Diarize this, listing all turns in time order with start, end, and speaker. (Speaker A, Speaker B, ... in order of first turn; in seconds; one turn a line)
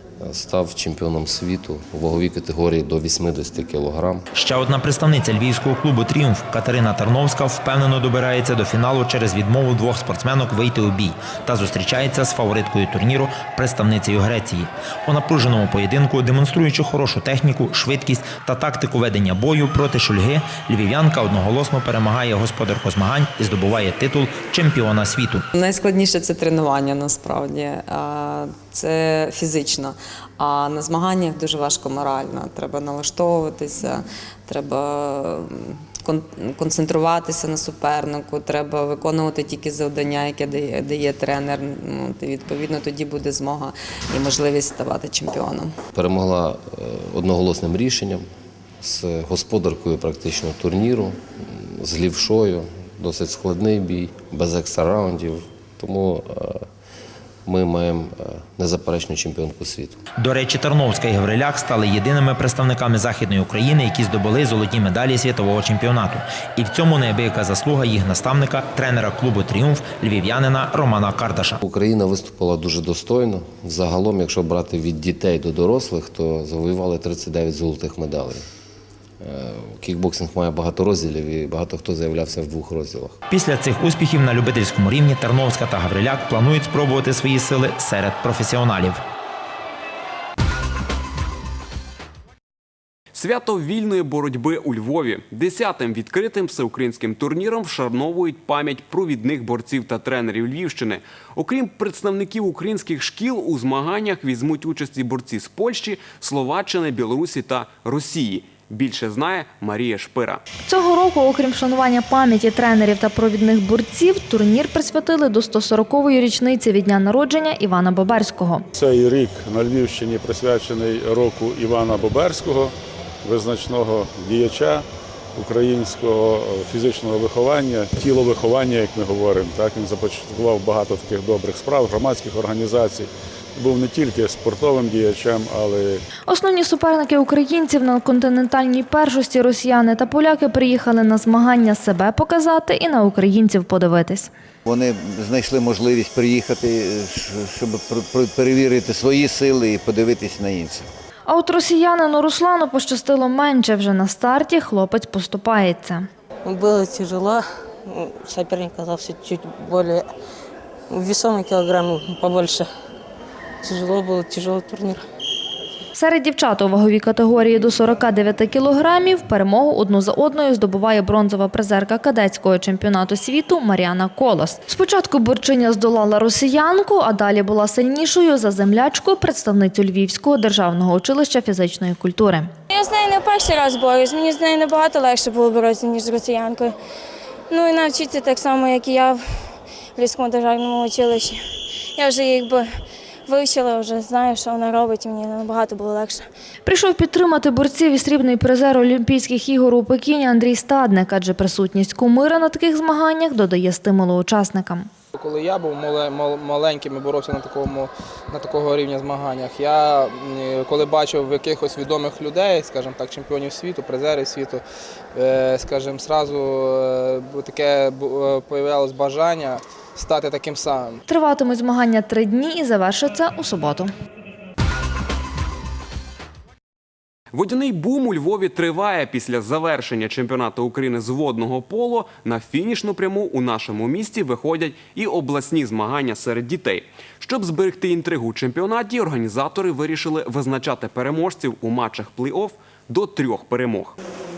Speaker A: 0.2-4.2
Speaker B: 4.3-25.4
Speaker C: 25.5-45.7
Speaker A: 45.9-48.3
Speaker A: 48.8-56.7
Speaker A: 57.4-60.0
Speaker B: 60.2-71.6
Speaker A: 71.6-78.4
Speaker A: 79.2-83.2
Speaker B: 83.3-89.0
Speaker D: 93.1-110.4
Speaker E: 110.7-118.7
Speaker F: 118.7-136.0
Speaker E: 136.3-144.3
Speaker G: 144.6-150.9
Speaker E: 151.3-156.1
Speaker H: 156.4-160.0
Speaker H: 160.9-162.7
Speaker H: 163.6-165.0
Speaker E: 165.9-182.5
Speaker I: 182.7-186.7
Speaker I: 187.5-189.2
Speaker I: 189.9-191.4
Speaker I: 191.9-192.7
Speaker I: 193.2-196.3
Speaker E: 196.6-204.9
Speaker J: 205.1-214.6
Speaker J: 215.1-221.0
Speaker E: 221.1-223.9
Speaker D: 227.3-243.9